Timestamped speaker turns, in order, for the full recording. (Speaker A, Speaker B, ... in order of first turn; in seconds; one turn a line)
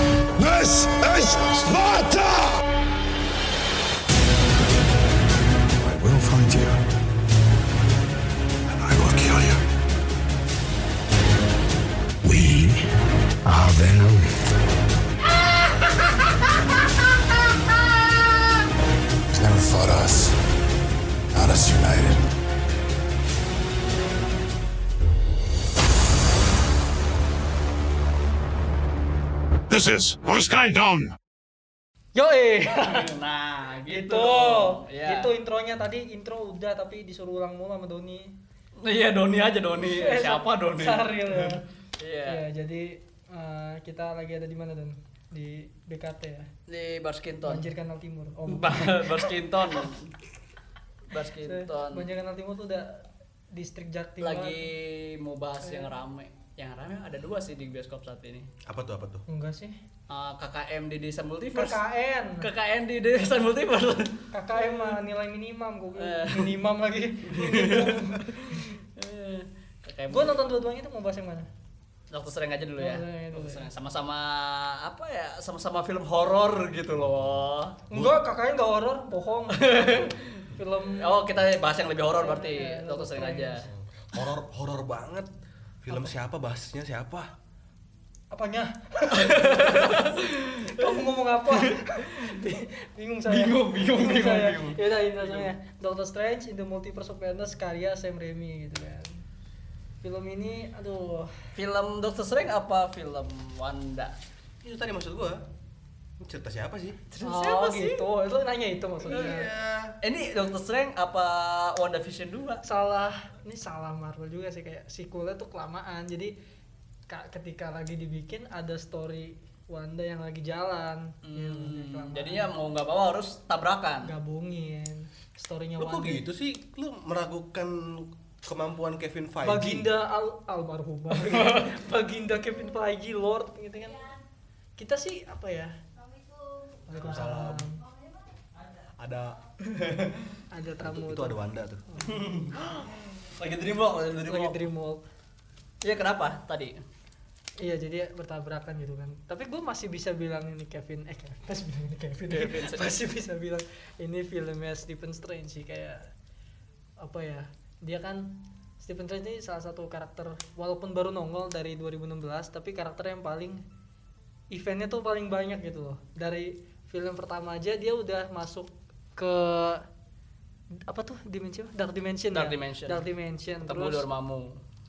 Speaker A: 0.4-2.6
Speaker A: 5.8-6.8
Speaker A: 8.7-9.6
Speaker A: 12.2-12.9
Speaker A: 13.4-14.4
Speaker A: 19.3-20.4
Speaker A: 21.3-22.3
Speaker A: 29.7-31.1
Speaker B: 32.1-33.1
Speaker C: 32.7-35.3
Speaker B: 33.9-38.3
Speaker C: 38.8-42.4
Speaker B: 39.8-41.6
Speaker B: 42.2-46.5
Speaker C: 46.7-47.7
Speaker B: 47.4-49.9
Speaker C: 48.5-50.1
Speaker C: 51.1-52.1
Speaker B: 51.4-54.6
Speaker C: 54.2-58.5
Speaker B: 55.6-55.9
Speaker D: 58.6-59.2
Speaker B: 59.3-59.8
Speaker C: 60.1-61.8
Speaker B: 61.5-62.5
Speaker C: 62.4-65.0
Speaker B: 64.3-68.7
Speaker C: 66.0-66.5
Speaker C: 67.2-70.4
Speaker B: 70.1-71.5
Speaker C: 72.1-77.8
Speaker B: 72.8-73.7
Speaker B: 77.9-81.3
Speaker D: 77.9-78.2
Speaker C: 79.5-83.7
Speaker B: 82.2-83.7
Speaker D: 83.7-85.3
Speaker D: 85.8-87.3
Speaker B: 88.3-99.2
Speaker C: 89.1-92.1
Speaker C: 93.3-95.5
Speaker B: 100.0-101.3
Speaker C: 101.5-104.1
Speaker D: 104.6-105.4
Speaker D: 106.2-107.0
Speaker C: 107.1-108.0
Speaker B: 107.2-109.5
Speaker D: 109.1-110.0
Speaker C: 109.1-109.3
Speaker C: 110.0-112.6
Speaker B: 112.6-116.3
Speaker B: 117.1-122.5
Speaker C: 121.2-124.1
Speaker B: 124.0-126.2
Speaker D: 125.8-129.9
Speaker B: 129.4-134.2
Speaker C: 131.2-131.8
Speaker B: 134.8-135.7
Speaker B: 136.9-137.9
Speaker D: 137.0-137.7
Speaker D: 139.0-139.4
Speaker C: 139.6-140.3
Speaker B: 140.5-142.2
Speaker D: 140.8-141.9
Speaker C: 142.0-144.7
Speaker B: 144.3-145.0
Speaker C: 145.8-146.8
Speaker B: 147.6-156.1
Speaker C: 152.3-152.9
Speaker B: 157.0-163.6
Speaker B: 164.5-169.8
Speaker B: 170.8-174.1
Speaker C: 172.3-173.1
Speaker C: 173.6-174.6